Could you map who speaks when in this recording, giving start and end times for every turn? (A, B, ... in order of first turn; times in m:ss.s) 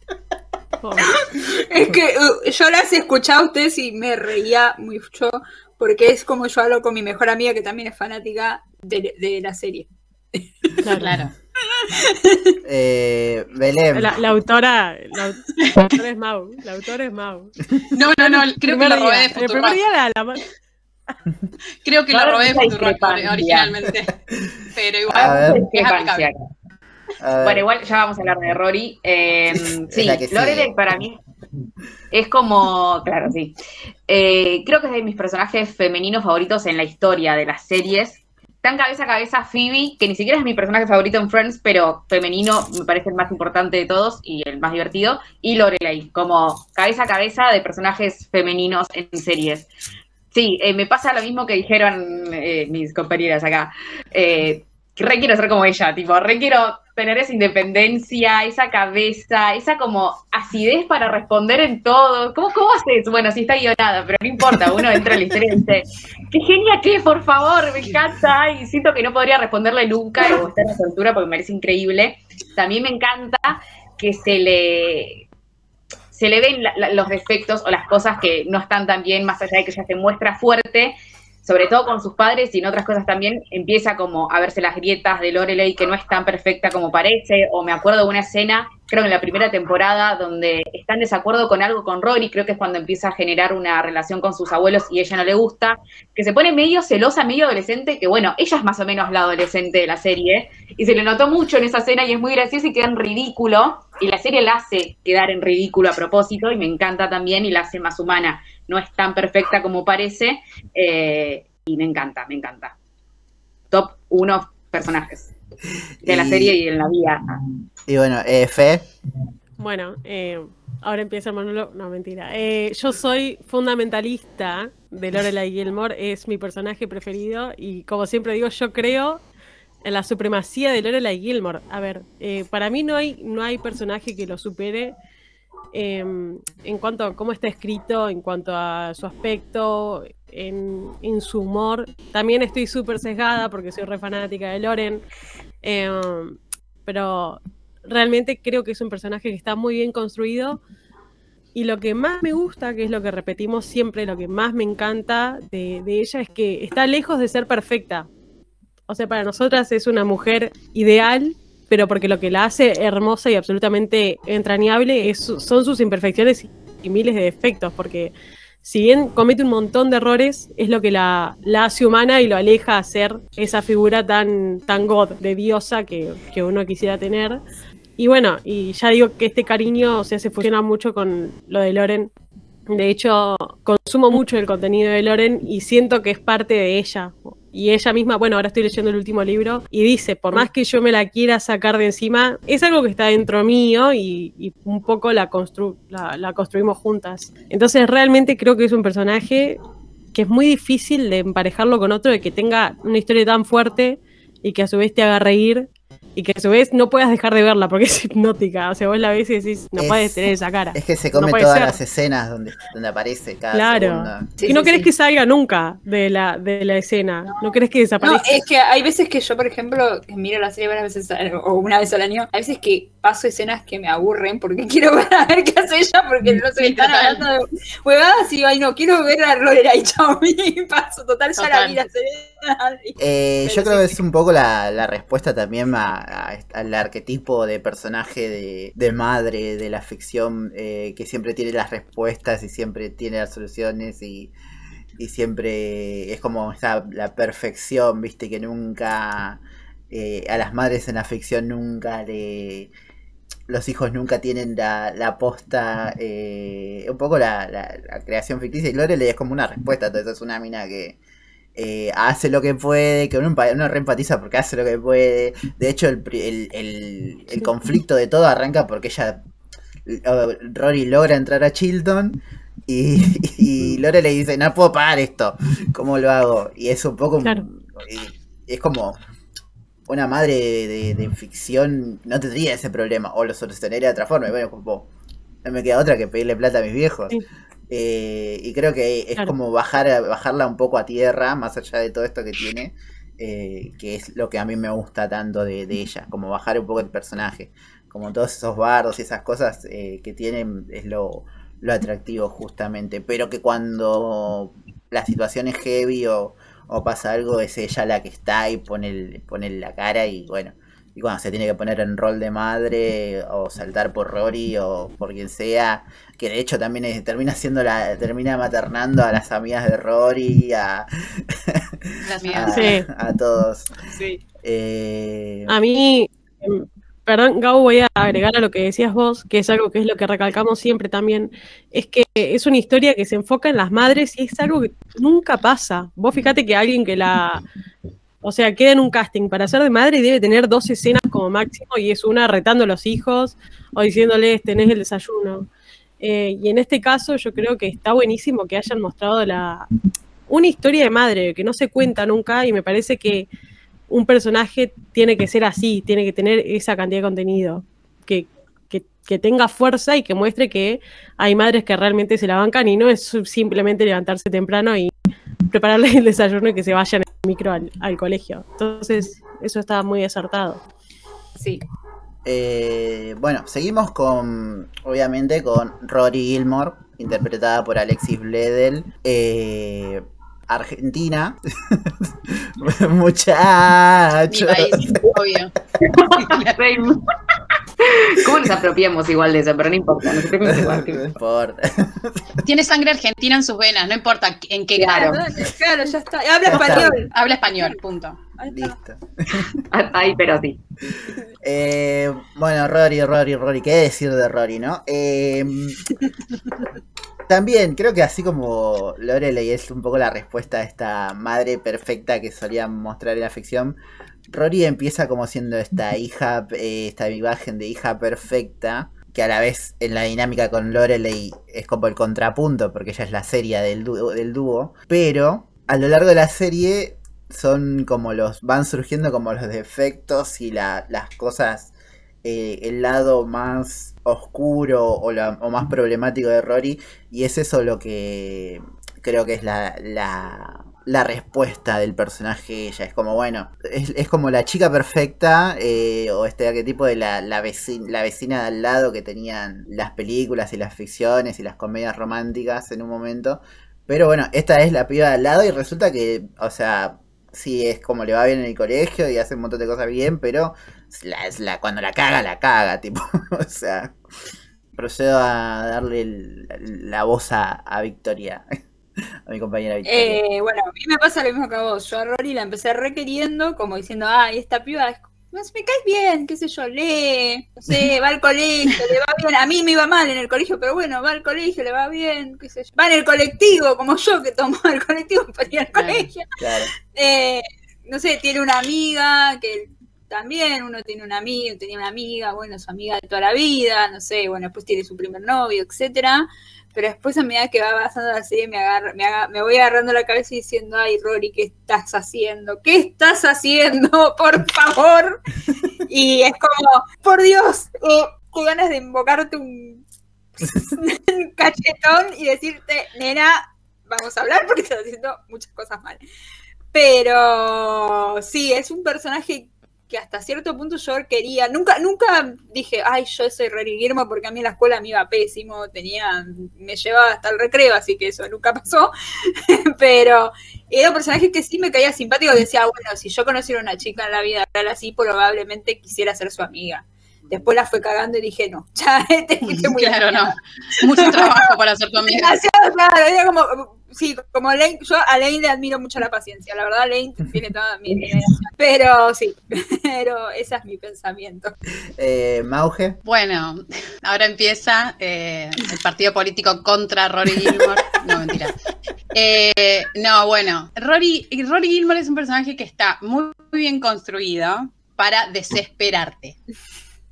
0:00.8-0:01.1 A
0:01.0-0:10.8 B
0:10.8-0:11.2 A
0:11.0-0:11.3 C
0:11.7-0:12.6 B
0:12.6-0:14.2 D
0:13.9-0:17.5 A
0:17.9-0:19.8 C
0:18.1-0:20.4 A
0:21.8-0:24.1 C
0:22.1-0:23.7 E
0:24.7-0:26.3 C
0:25.1-0:26.4 E
0:25.1-0:25.6 D
0:27.2-0:27.6 D
0:27.4-0:31.2 E
0:29.5-0:30.7 D
0:32.1-0:33.5 E
0:34.1-0:49.7 E
0:50.3-1:15.2 E
1:16.1-1:52.7 E
1:53.7-1:55.3 E
1:56.0-1:57.2 E
1:56.0-1:56.6 D
1:57.9-1:58.8 D
1:59.6-2:09.2 A
2:09.8-2:14.9 A
2:15.7-2:25.0 A
2:25.6-2:30.6 A
2:31.5-2:38.1 A
2:38.9-2:48.1 A
2:48.6-2:57.4 A
2:58.0-3:02.1 A
3:02.7-3:19.6 A
3:20.1-3:31.8 A
3:29.8-3:30.2 D
3:30.7-3:34.3 D
3:33.5-3:38.4 A
3:34.4-3:34.9 B
3:38.0-3:54.0 B
3:46.3-3:47.2 C
3:51.4-3:51.8 C
3:53.0-4:04.3 D
4:05.0-4:12.7 D
4:13.5-4:21.0 D
4:21.6-4:29.2 D
4:29.9-4:39.0 D
4:39.9-4:44.9 D
4:45.4-4:47.2 D
4:47.7-5:23.7 D
5:22.0-5:22.7 C
5:22.5-5:22.8 A
5:23.9-5:24.2 B
5:24.4-5:25.5 D
5:25.5-5:37.4 A
5:38.2-5:45.5 A
5:46.0-5:49.7 A
5:50.3-5:53.3 A
5:53.9-6:04.9 A
6:05.5-6:10.6 A
6:11.4-6:11.6 B
6:12.2-6:25.0 D
6:24.3-6:26.5 C
6:25.8-6:27.0 E
6:27.8-6:31.1 E
6:30.4-6:32.4 D
6:32.4-6:35.2 C
6:34.8-6:35.2 E
6:34.9-6:37.1 B
6:36.4-6:37.0 D
6:36.5-6:38.2 C
6:38.4-6:38.7 B
6:38.5-6:39.6 D
6:39.7-6:40.6 E
6:40.9-6:45.8 D
6:47.3-6:53.8 D
6:54.3-7:11.7 D
7:12.2-7:44.0 D
7:44.8-7:48.5 D
7:49.2-7:50.2 D
7:49.8-8:06.3 B
8:05.7-8:06.1 C
8:06.4-8:06.7 D
8:06.9-8:25.2 B
8:25.9-8:29.8 B
8:30.4-8:36.0 B
8:36.7-8:48.9 B
8:49.4-9:01.4 B
8:59.4-9:02.3 C
9:02.1-9:11.5 B
9:12.0-9:13.0 D
9:13.0-9:18.6 C
9:19.1-9:26.4 C